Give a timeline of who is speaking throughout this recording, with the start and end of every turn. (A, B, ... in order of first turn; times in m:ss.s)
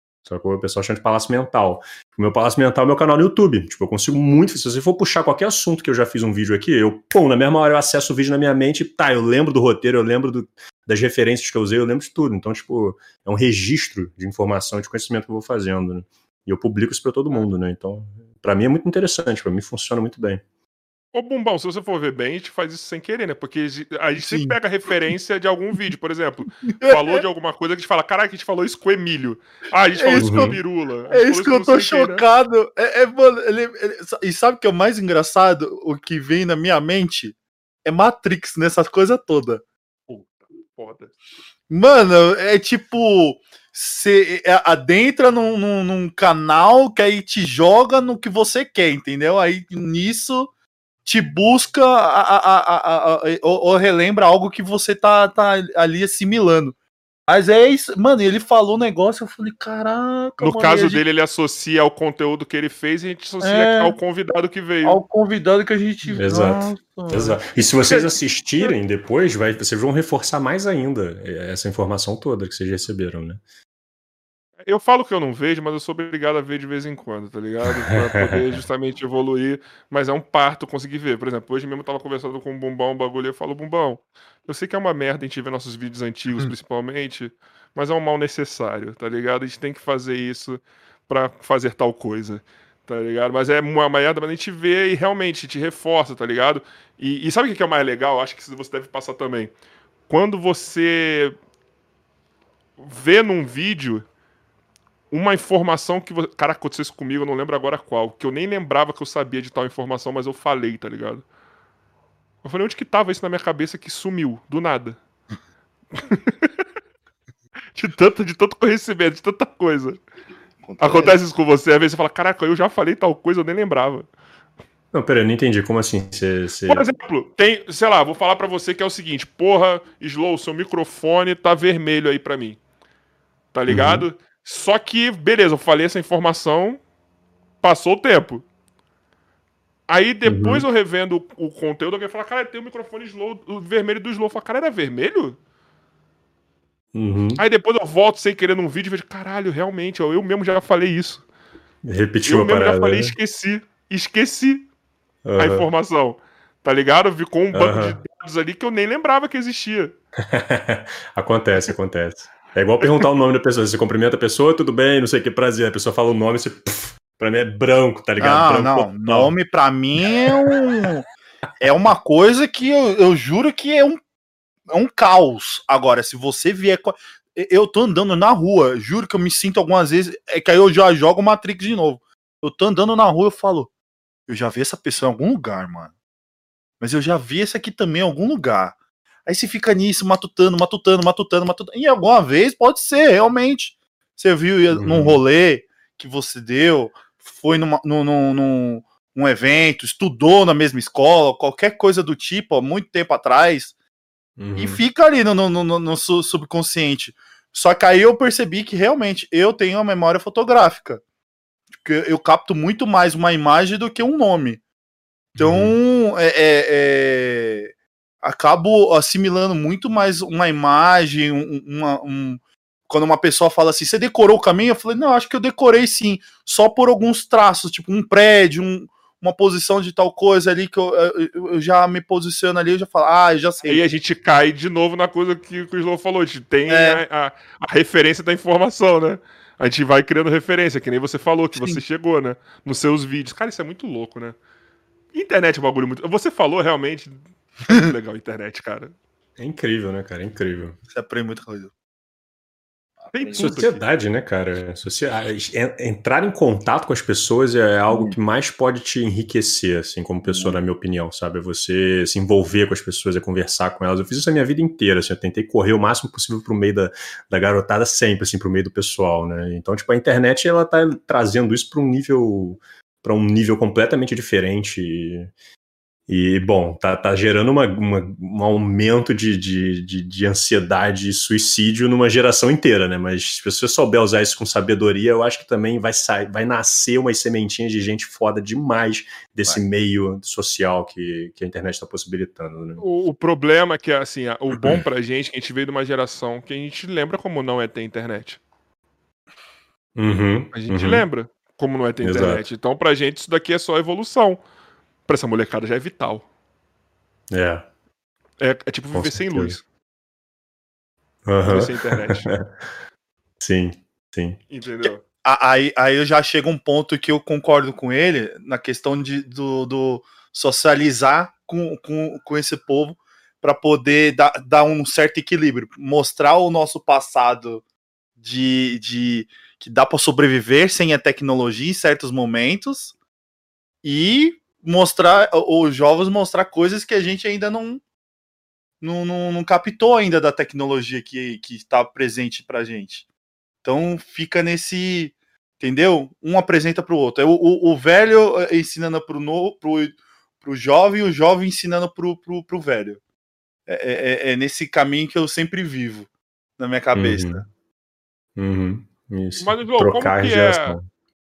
0:00.2-0:20.4 A
0:21.1-0:32.2 B
0:24.2-0:24.6 C
0:26.6-0:27.2 C
0:30.0-0:30.5 C
0:30.2-0:30.6 A
0:31.1-0:39.6 C
0:40.1-0:41.1 B
0:41.7-0:50.5 C
0:51.0-0:56.8 C
0:57.3-1:01.0 C
1:00.4-1:05.0 B
1:03.4-1:04.0 C
1:04.8-1:08.7 C
1:06.0-1:13.4 A
1:14.6-1:39.5 B
1:17.9-1:18.4 A
1:40.1-1:41.3 B
1:42.8-1:44.0 B
1:45.1-1:51.2 B
1:52.4-1:55.0 B
1:55.9-1:56.6 B
1:57.7-2:00.0 B
2:00.6-2:01.2 C
2:00.8-2:04.1 B
2:04.9-2:06.8 A
2:06.7-2:12.6 B
2:13.5-2:16.8 B
2:13.7-2:14.0 A
2:17.6-2:18.4 B
2:19.9-2:25.4 B
2:20.2-2:20.6 A
2:26.9-2:27.4 A
2:27.4-2:31.2 B
2:31.8-2:33.1 A
2:32.2-2:34.6 B
2:35.2-2:35.7 A
2:35.4-2:39.9 B
2:37.5-2:38.0 A
2:40.2-2:49.3 A
2:48.2-2:51.0 C
2:51.6-2:54.0 C
2:54.7-3:03.7 C
3:04.3-3:05.9 C
3:06.8-3:08.7 C
3:09.2-3:23.7 C
3:14.7-3:15.2 A
3:24.4-3:24.8 A
3:24.6-3:31.0 C
3:31.7-3:34.6 C
3:35.4-3:35.8 A
3:35.4-3:53.8 C
3:53.6-4:04.4 B
3:56.7-3:57.0 C
4:01.5-4:01.8 C
4:05.1-4:08.9 B
4:09.4-4:10.8 A
4:10.9-4:11.7 C
4:13.0-4:13.7 C
4:13.1-4:13.8 B
4:13.3-4:35.3 A
4:17.9-4:18.2 C
4:20.2-4:20.6 C
4:36.1-4:52.8 A
4:52.8-4:58.4 B
4:54.6-4:54.8 A
5:00.0-5:01.0 A
5:00.5-5:04.4 B
5:02.0-5:02.4 A
5:05.1-5:06.2 B
5:07.3-5:07.7 A
5:08.4-5:09.6 B
5:08.9-5:09.6 A
5:11.2-5:12.4 A
5:11.4-5:12.3 B
5:13.4-5:14.4 A
5:14.5-5:15.0 B
5:15.2-5:27.6 C
5:28.2-5:32.9 C
5:33.8-5:37.8 C
5:38.8-5:43.0 C
5:43.6-5:53.0 C
5:53.7-5:57.4 C
5:56.9-5:57.4 A
5:58.4-6:00.8 A
5:59.4-6:00.8 B